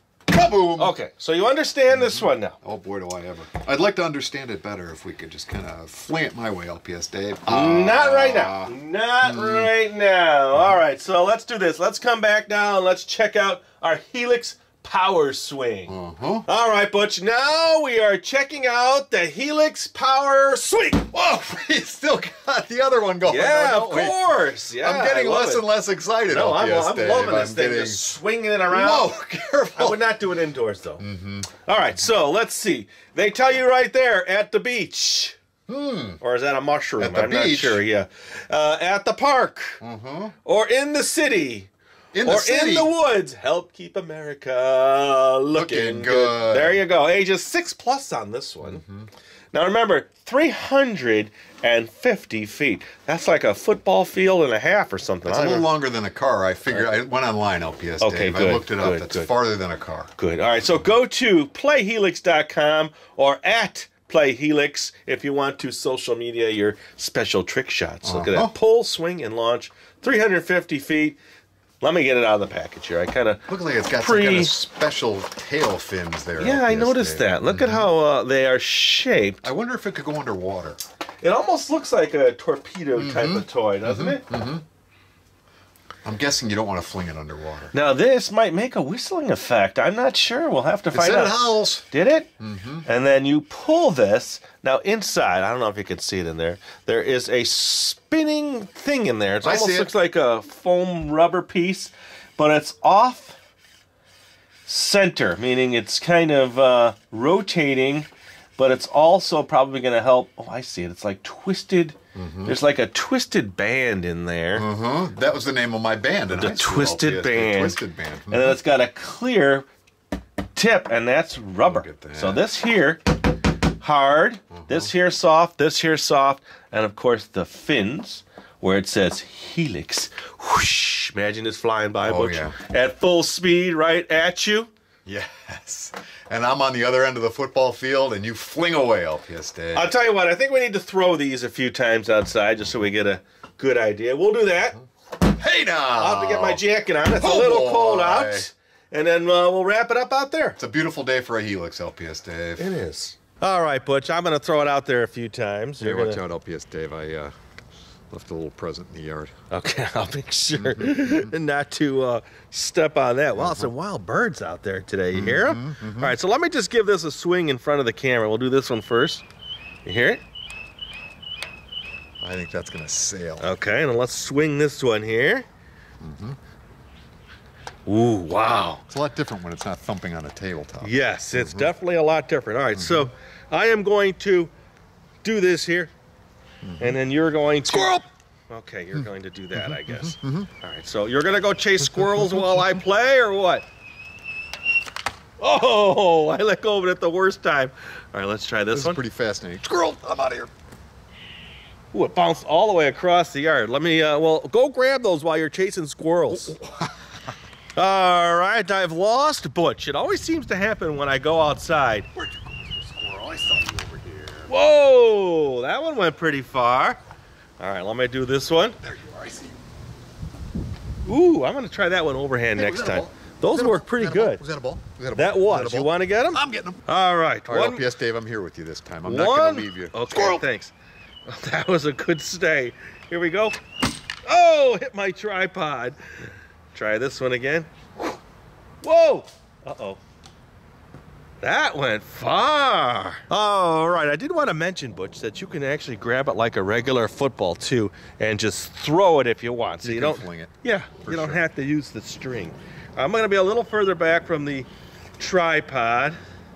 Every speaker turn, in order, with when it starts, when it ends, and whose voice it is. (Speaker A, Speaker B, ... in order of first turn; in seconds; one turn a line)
Speaker A: 0.3-0.9
Speaker B: 0.7-2.6
Speaker A: 1.9-9.7
Speaker B: 7.5-15.9
Speaker A: 15.9-16.5
Speaker B: 16.4-21.1
Speaker A: 21.1-28.1
Speaker B: 23.2-25.6
Speaker B: 26.3-29.2
Speaker A: 28.6-30.0
Speaker B: 29.8-31.0
Speaker A: 31.0-31.5
Speaker B: 31.6-35.4
Speaker A: 35.7-36.2
Speaker B: 36.2-39.8
Speaker A: 37.0-37.8
Speaker A: 39.8-40.3
Speaker B: 40.4-41.7
Speaker A: 42.1-42.9
Speaker B: 42.2-48.8
Speaker A: 45.5-46.8
Speaker A: 48.6-49.1
Speaker B: 49.5-55.7
Speaker A: 55.2-60.1
Speaker B: 56.7-56.9
Speaker B: 58.0-59.3
Speaker B: 60.1-71.2
Speaker A: 68.0-68.5
Speaker B: 71.8-74.5
Speaker A: 73.5-77.9
Speaker B: 76.4-79.5
Speaker A: 79.4-80.8
Speaker B: 81.2-84.2
Speaker A: 83.0-84.6
Speaker A: 86.0-87.7
Speaker B: 87.7-92.3
Speaker A: 90.9-91.8
Speaker A: 92.4-92.8
Speaker B: 92.8-103.4
Speaker A: 99.4-99.9
Speaker B: 104.7-114.7
Speaker A: 112.1-112.6
Speaker A: 114.5-118.6
Speaker B: 116.3-119.6
Speaker B: 120.5-123.2
Speaker A: 121.6-122.4
Speaker B: 123.8-134.7
Speaker A: 124.5-124.9
Speaker A: 132.0-132.6
Speaker A: 135.1-139.9
Speaker B: 139.7-144.8
Speaker A: 145.2-148.5
Speaker B: 145.9-150.6
Speaker A: 150.6-152.8
Speaker B: 152.6-156.2
Speaker A: 155.8-157.3
Speaker A: 158.1-159.3
Speaker B: 159.5-169.2
Speaker A: 160.5-161.3
Speaker A: 163.3-163.7
Speaker A: 165.1-166.2
Speaker B: 169.8-170.2
Speaker A: 172.2-173.5
Speaker B: 173.4-175.4
Speaker A: 176.0-176.4
Speaker B: 177.8-178.8
Speaker A: 178.9-181.7
Speaker B: 180.8-184.5
Speaker A: 182.7-183.1
Speaker B: 185.2-185.9
Speaker A: 186.6-187.0
Speaker B: 186.8-193.6
Speaker A: 187.6-188.0
Speaker A: 188.9-190.5
Speaker A: 191.8-192.8
Speaker B: 195.4-199.0
Speaker A: 198.7-200.5
Speaker B: 201.9-206.6
Speaker A: 206.3-206.9
Speaker B: 207.8-212.1
Speaker A: 212.1-214.5
Speaker B: 214.5-217.0
Speaker B: 217.6-218.8
Speaker A: 218.8-219.6
Speaker B: 221.1-224.4
Speaker A: 222.5-226.9
Speaker B: 225.1-227.8
Speaker A: 227.4-230.4
Speaker B: 229.1-230.7
Speaker B: 231.3-233.6
Speaker B: 234.2-237.7
Speaker B: 238.8-240.0
Speaker B: 241.4-254.7
Speaker A: 249.8-251.4
Speaker B: 255.2-256.2